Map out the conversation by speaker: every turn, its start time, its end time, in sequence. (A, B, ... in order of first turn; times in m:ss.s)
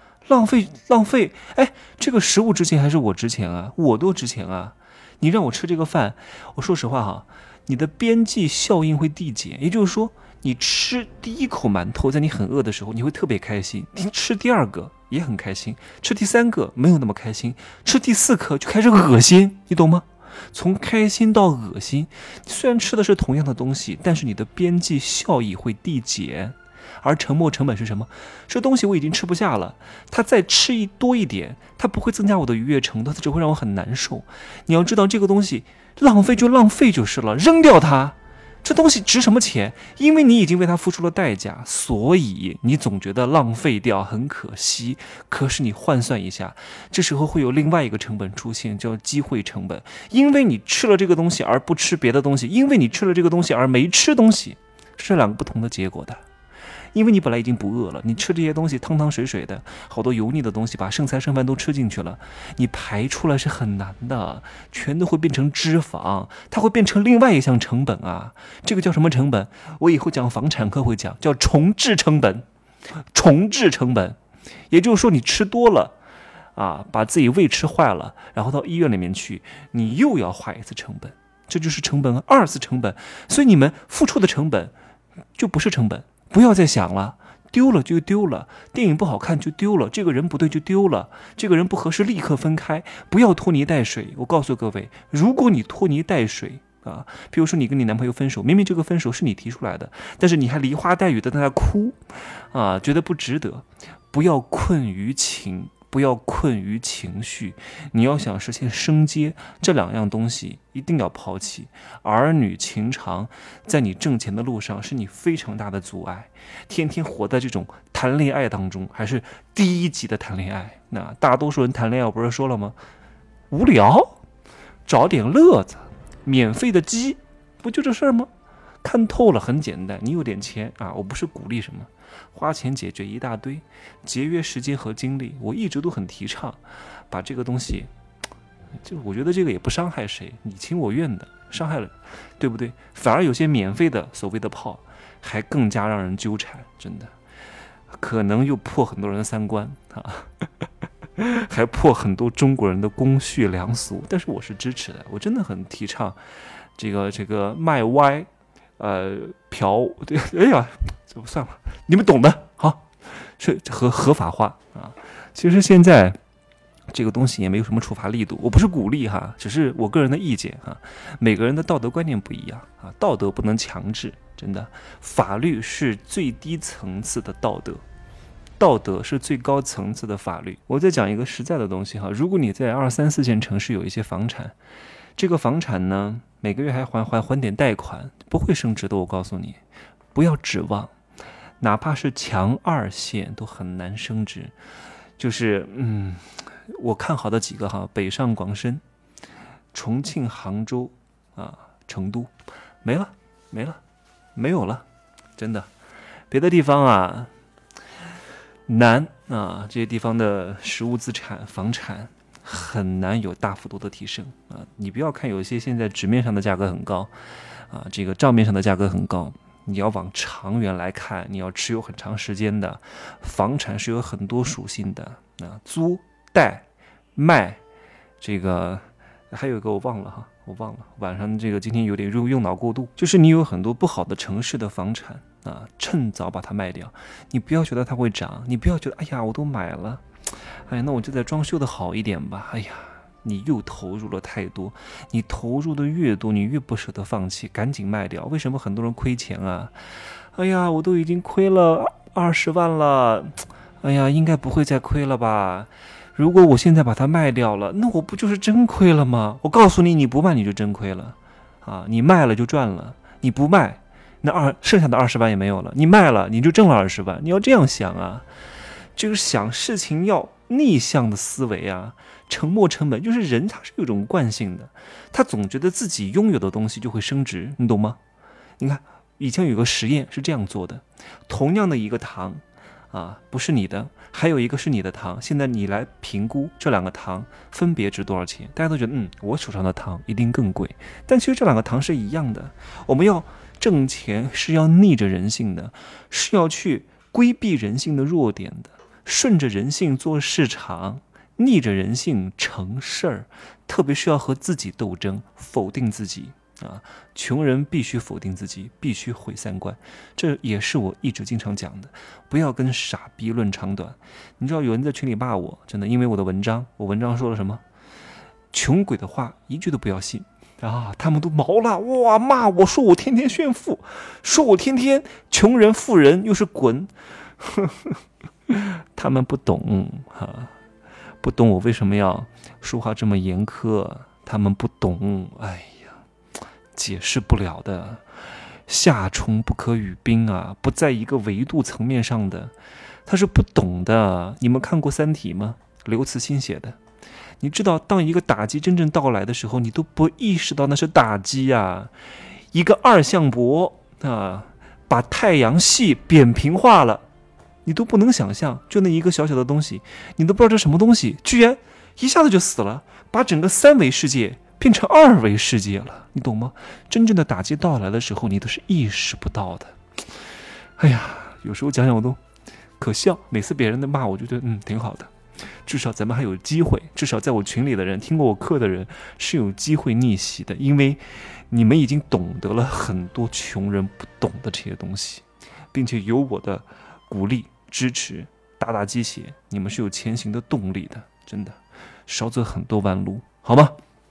0:00.2-0:56.2 A
0:56.9-1:12.5 A
1:13.0-1:14.2 A
1:14.7-1:15.9 A
1:16.6-1:24.7 A
1:25.4-2:02.8 A
2:03.5-2:04.2 A
2:04.9-2:08.3 A
2:08.8-2:17.9 A
2:18.8-2:27.1 A
2:27.9-2:30.3 A
2:31.2-2:36.2 A
2:36.8-2:46.2 A
2:46.9-2:57.8 A
2:58.6-3:04.6 A
3:05.2-3:09.6 A
3:10.1-3:10.9 A
3:11.6-3:14.5 A
3:15.2-3:18.8 A
3:19.7-3:22.3 A
3:22.8-3:23.8 A
3:24.4-3:24.8 A
3:25.4-3:25.7 A
3:26.3-3:27.3 A
3:28.7-3:37.1 A
3:37.7-3:47.6 A
3:48.2-4:28.3 A
4:29.0-4:38.0 A
4:38.6-5:17.6 A
5:18.5-5:30.5 A
5:31.2-5:36.0 A
5:36.7-5:38.0 A
5:38.7-5:42.5 A
5:43.1-5:46.8 A
5:47.4-5:51.9 A
5:52.5-5:57.0 A
5:57.6-6:09.8 A
6:10.8-6:12.2 A
6:12.8-6:33.8 A